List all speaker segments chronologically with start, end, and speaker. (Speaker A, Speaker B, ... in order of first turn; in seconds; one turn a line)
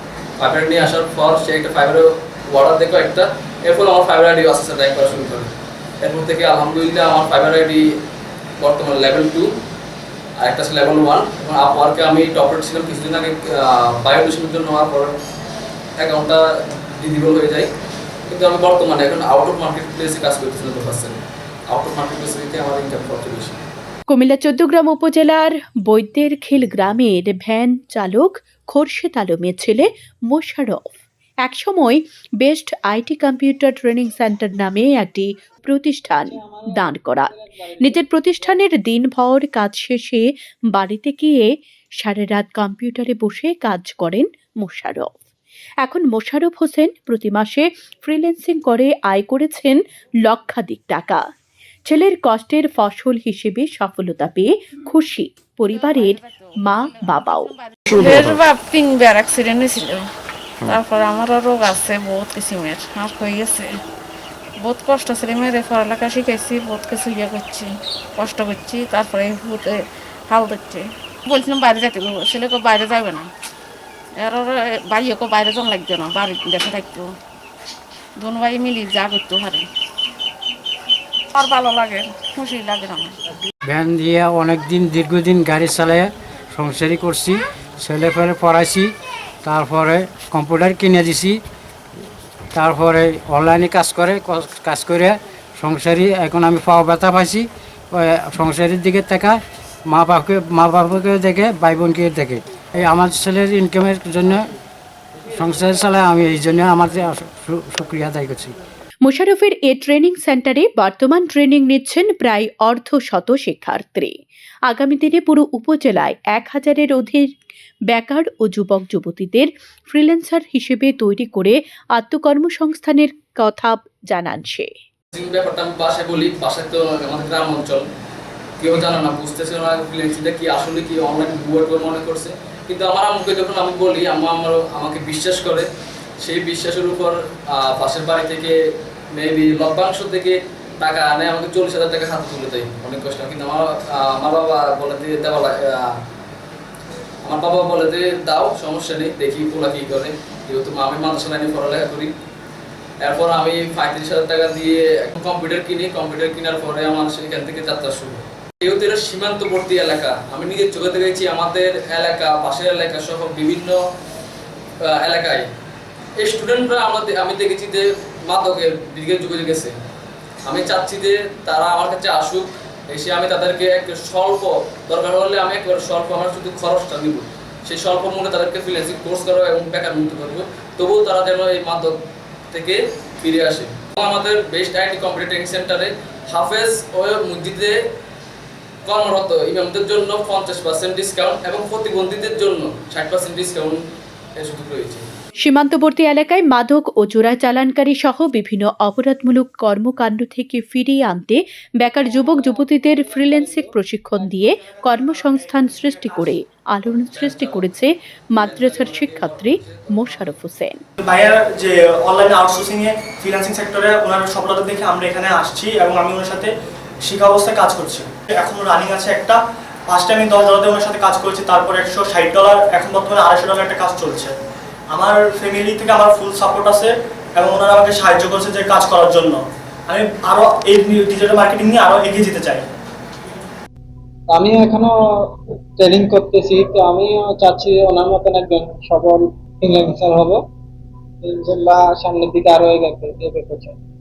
Speaker A: 0.4-5.5
Speaker A: 6.0-7.9
Speaker A: 8.6-9.6
Speaker A: 10.4-15.1
Speaker A: 16.0-17.7
Speaker A: 18.3-23.6
Speaker B: 24.1-30.8
Speaker B: 31.4-45.1
Speaker C: 36.0-38.6
Speaker B: 45.8-51.2
Speaker B: 51.9-57.5
Speaker D: 55.7-60.0
Speaker D: 60.6-63.8
Speaker D: 64.6-73.3
Speaker D: 74.2-77.1
Speaker D: 78.2-79.7
Speaker D: 81.3-83.1
Speaker E: 83.7-88.9
Speaker E: 89.4-91.4
Speaker E: 92.5-104.5
Speaker E: 105.3-108.5
Speaker B: 109.0-114.1
Speaker B: 114.7-117.3
Speaker B: 117.9-124.7
Speaker A: 125.1-127.9
Speaker A: 128.6-135.7
Speaker A: 136.2-138.6
Speaker A: 139.1-146.0
Speaker A: 147.2-152.1
Speaker A: 153.0-163.8
Speaker A: 164.8-165.5
Speaker A: 166.2-169.7
Speaker A: 170.4-182.0
Speaker A: 182.5-187.8
Speaker A: 188.8-193.8
Speaker A: 194.4-195.1
Speaker B: 195.4-210.8
Speaker C: 201.8-204.3
Speaker F: 205.8-206.2
Speaker A: 207.1-207.7
Speaker A: 208.4-210.3
Speaker F: 211.0-216.5
Speaker F: 217.1-224.3
Speaker F: 224.9-232.7
Speaker C: 234.3-240.4
Speaker C: 241.2-243.8